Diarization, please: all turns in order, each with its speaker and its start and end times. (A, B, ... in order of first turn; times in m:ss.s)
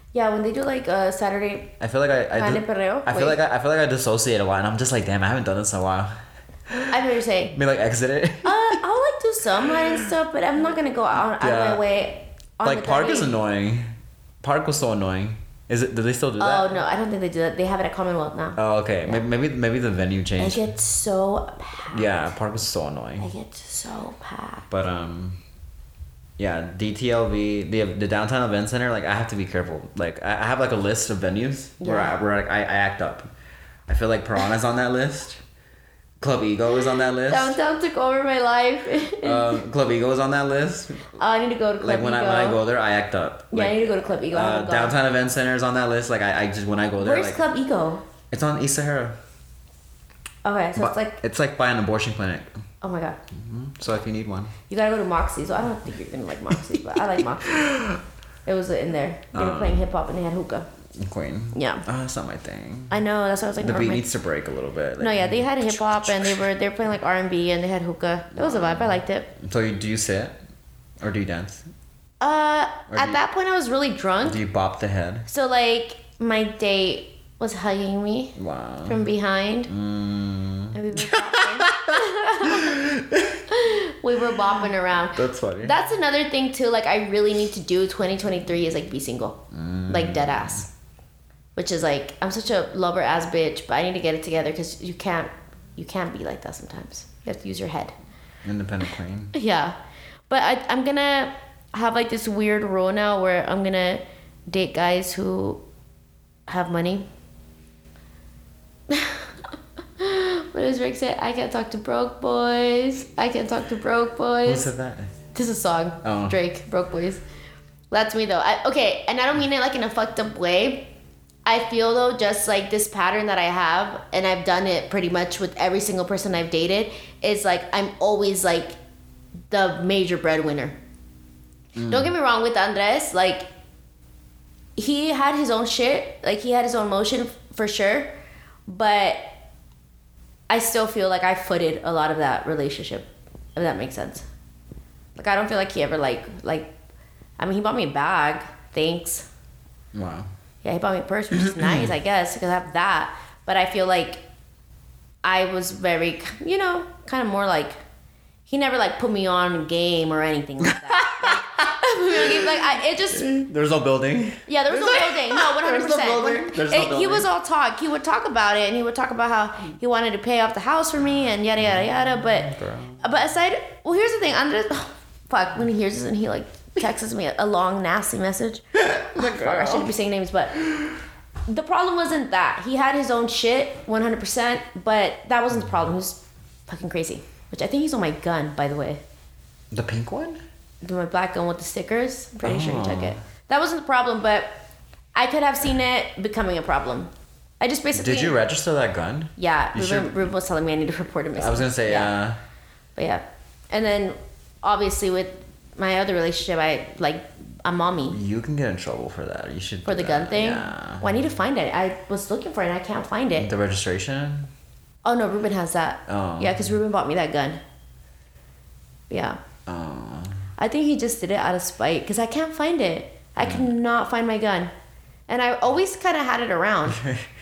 0:00.1-0:01.7 A
0:01.8-0:06.1 B
0:02.3-0:03.4 A
0:06.7-0:07.0 B
0:06.9-0:07.5 A
0:07.5-0:08.8 B
0:08.4-0:13.3 A
0:11.2-0:11.8 B
0:12.6-0:16.7 B
0:16.4-0:19.2 A
0:18.6-0:20.6 B
0:20.4-0:22.3 A
0:21.9-0:23.3 B
0:23.2-0:24.7 A
0:24.7-0:25.4 B
0:26.4-0:33.3 B
0:31.8-0:32.2 A
0:33.9-0:35.4 B
0:36.2-0:37.6 B
0:37.2-0:39.6 A
0:39.2-0:41.2 B
0:41.2-0:42.6 A
0:41.8-0:47.4 B
0:43.5-0:44.9 A
0:47.0-0:48.0 A
0:48.3-0:49.2 B
0:50.4-0:51.2 A
0:50.8-0:52.5 B
0:52.8-0:53.2 A
0:53.3-0:54.5 B
0:54.7-0:57.6 A
0:56.5-0:58.0 B
0:58.4-1:00.7 A
0:59.3-0:59.9 B
1:00.9-1:03.0 B
1:01.5-1:01.8 A
1:02.9-1:04.1 A
1:03.6-1:06.4 B
1:05.0-1:09.3 A
1:08.3-1:10.4 B
1:11.0-1:11.7 B
1:12.2-1:14.4 A
1:12.9-1:13.2 B
1:14.2-1:15.3 B
1:15.3-1:19.7 A
1:18.4-1:19.0 B
1:19.7-1:23.4 B
1:20.7-1:22.8 A
1:23.5-1:30.7 A
1:25.1-1:25.8 B
1:29.5-1:30.7 B
1:31.6-1:37.9 A
1:38.4-1:39.3 B
1:39.3-1:39.8 A
1:40.3-1:45.6 A
1:46.5-1:47.1 A
1:48.9-1:49.3 A
1:50.0-1:54.7 A
1:54.4-1:55.1 B
1:55.3-1:57.2 A
1:56.0-1:56.4 B
1:57.9-2:00.9 A
2:01.4-2:08.8 A
2:09.5-2:10.8 A
2:11.7-2:12.1 B
2:11.9-2:13.5 A
2:14.8-2:18.1 A
2:18.7-2:19.3 A
2:20.5-2:24.2 A
2:25.2-2:26.7 A
2:27.4-2:29.3 A
2:29.9-2:30.3 B
2:30.6-2:34.2 A
2:31.3-2:31.9 B
2:35.2-2:37.8 A
2:38.5-2:43.3 A
2:40.7-2:47.3 B
2:44.4-2:52.5 A
2:51.6-2:53.1 B
2:53.0-3:00.6 A
2:58.8-2:59.9 B
3:01.5-3:09.0 A
3:09.7-3:10.4 B
3:10.8-3:14.6 A
3:12.4-3:13.2 B
3:15.1-3:18.4 A
3:17.9-3:20.3 B
3:19.4-3:22.1 A
3:21.4-3:22.4 B
3:23.0-3:28.2 A
3:28.1-3:31.2 B
3:29.8-3:33.5 A
3:33.3-3:34.5 B
3:35.0-3:37.6 A
3:36.1-3:36.7 B
3:39.1-3:39.4 A
3:39.6-3:40.5 B
3:40.6-3:44.7 A
3:43.4-3:43.7 B
3:45.3-3:47.0 A
3:46.9-3:47.3 B